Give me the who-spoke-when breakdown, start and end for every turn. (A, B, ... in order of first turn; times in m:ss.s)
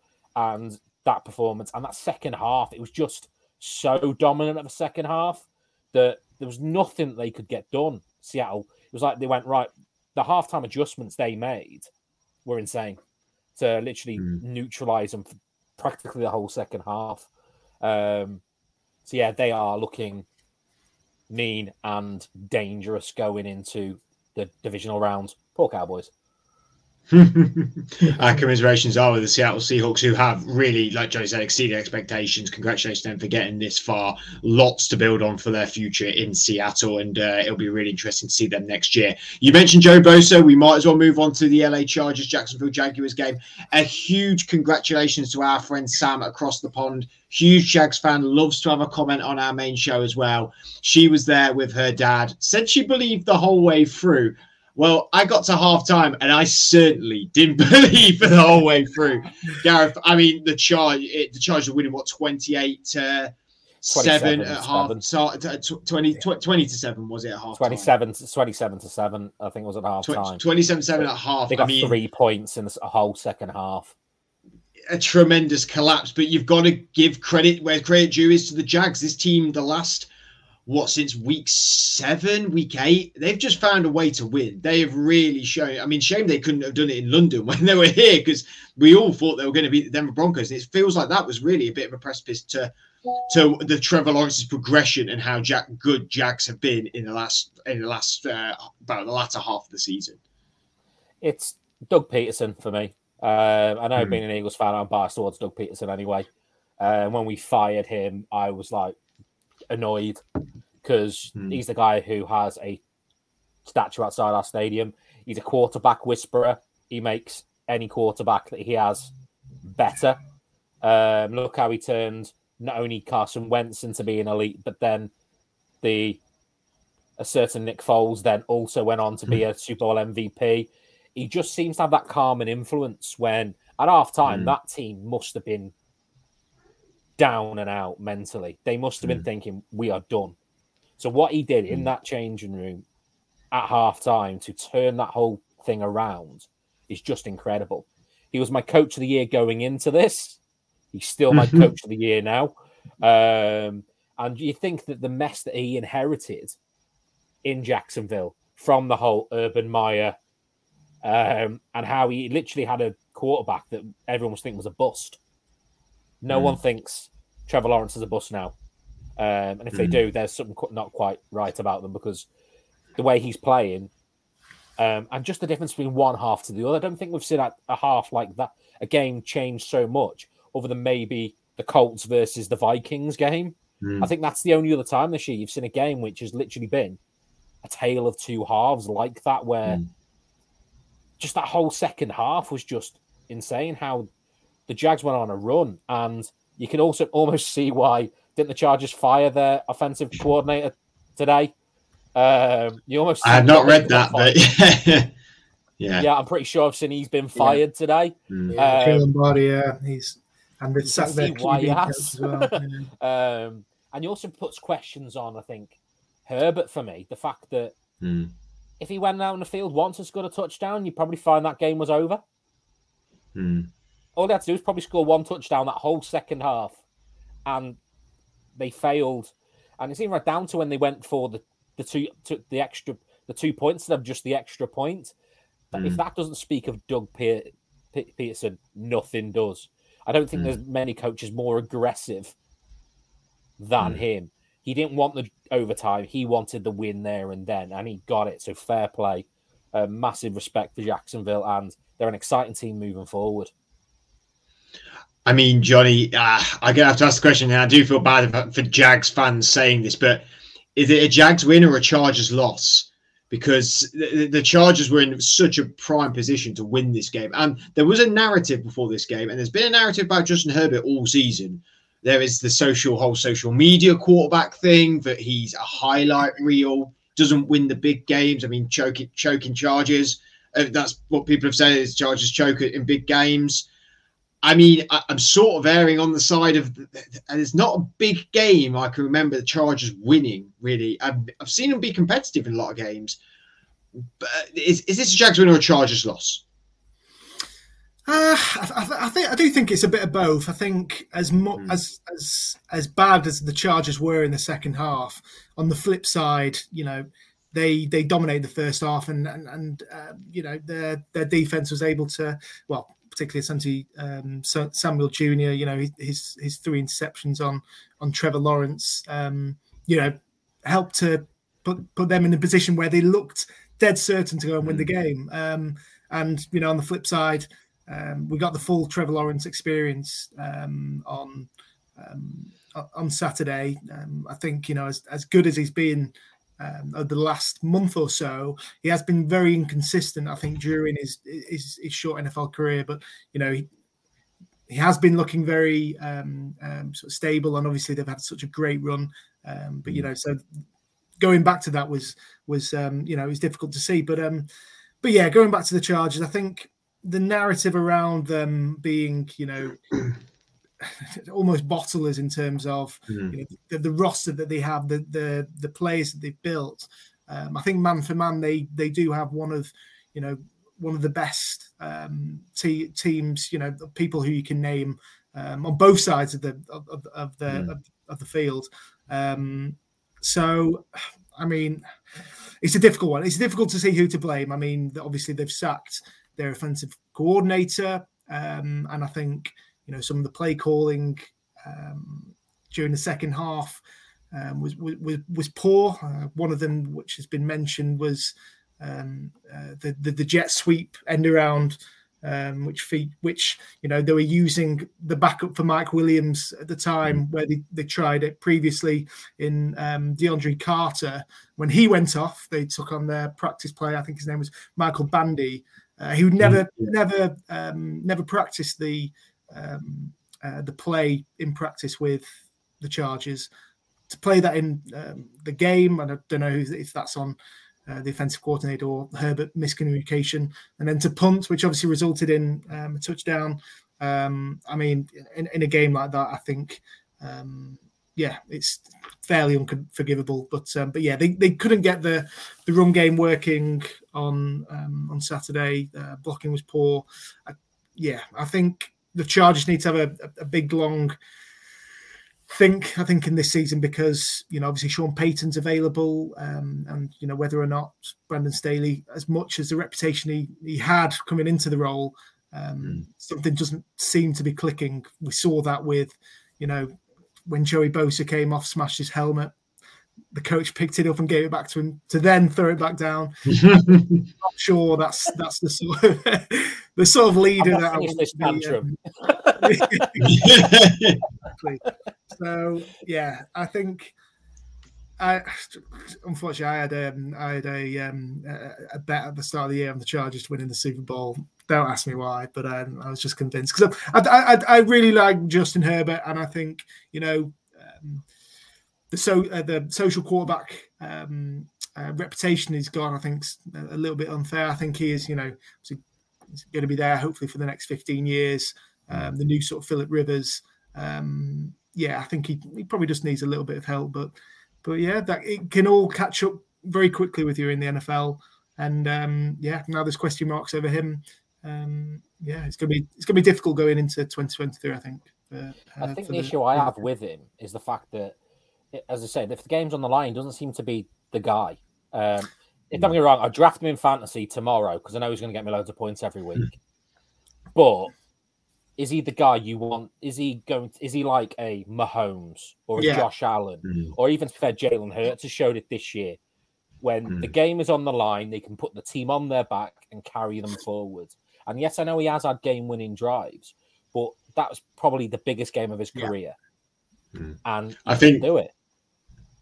0:00.4-0:11.9 A
0:12.4-0:13.0 A
0:13.6-0:17.3 A
0:17.8-0:18.4 A
0:19.0-0:20.3 A
0:21.3-0:26.1 A
0:27.1-1:07.9 B
1:03.9-1:05.0 A
1:07.6-1:10.4 A
1:10.0-1:12.0 B
1:11.5-1:13.9 A
1:14.9-1:20.1 B
1:20.7-1:32.7 B
1:33.3-1:40.2 B
1:41.2-1:46.3 A
1:46.8-1:49.0 A
1:49.7-1:50.2 A
1:50.8-1:52.8 A
1:53.6-1:59.1 A
1:59.7-2:00.2 A
2:00.8-2:05.1 A
2:05.8-2:06.2 A
2:07.2-2:15.7 A
2:14.3-2:14.5 B
2:17.2-2:20.4 A
2:21.0-2:22.8 A
2:23.5-2:30.4 A
2:30.9-2:36.6 A
2:31.3-2:31.7 B
2:37.4-2:40.2 A
2:41.0-2:45.2 A
2:46.2-2:48.6 A
2:46.3-2:46.6 B
2:49.2-2:52.3 A
2:49.7-2:50.0 B
2:53.0-2:53.9 A
2:54.8-3:07.0 A
3:03.8-3:04.1 B
3:07.6-3:09.8 A
3:11.2-3:14.1 A
3:14.7-3:21.5 A
3:22.2-3:24.4 A
3:23.2-3:25.1 B
3:25.8-3:26.1 B
3:26.0-3:29.1 A
3:28.3-3:28.6 B
3:28.6-3:32.9 C
3:30.8-3:37.8 A
3:38.0-3:38.3 B
3:38.8-3:42.2 A
3:43.4-3:43.7 B
3:44.2-3:46.8 A
3:47.5-3:47.8 A
3:48.6-3:55.1 A
3:55.7-4:02.4 A
3:55.8-3:56.0 B
4:03.6-4:13.5 A
4:15.2-4:43.7 B
4:44.4-4:53.2 B
4:54.0-4:56.4 B
4:58.1-5:43.7 C
5:24.6-5:24.9 B
5:44.7-5:50.4 C
5:51.2-5:54.5 C
5:55.0-5:59.9 C
6:00.8-6:21.8 C
6:03.1-6:03.3 B
6:22.6-7:02.3 C
6:56.4-6:56.9 B
7:02.8-7:03.5 C
7:04.1-7:31.2 C
7:32.5-7:49.6 C
7:50.3-7:59.0 C
7:53.5-7:54.2 B
7:57.6-8:00.1 A
7:59.6-8:00.7 C
8:00.2-8:01.2 B
8:01.6-8:04.1 C
8:05.2-8:18.2 C
8:19.1-8:26.0 C
8:26.6-8:47.0 C
8:46.0-8:48.4 A
8:48.9-8:56.8 A
8:57.8-8:58.1 A
8:59.0-9:06.4 A
9:03.0-9:03.3 C
9:03.8-9:04.1 B
9:07.0-9:16.6 A
9:17.3-9:18.4 B
9:17.6-9:18.7 A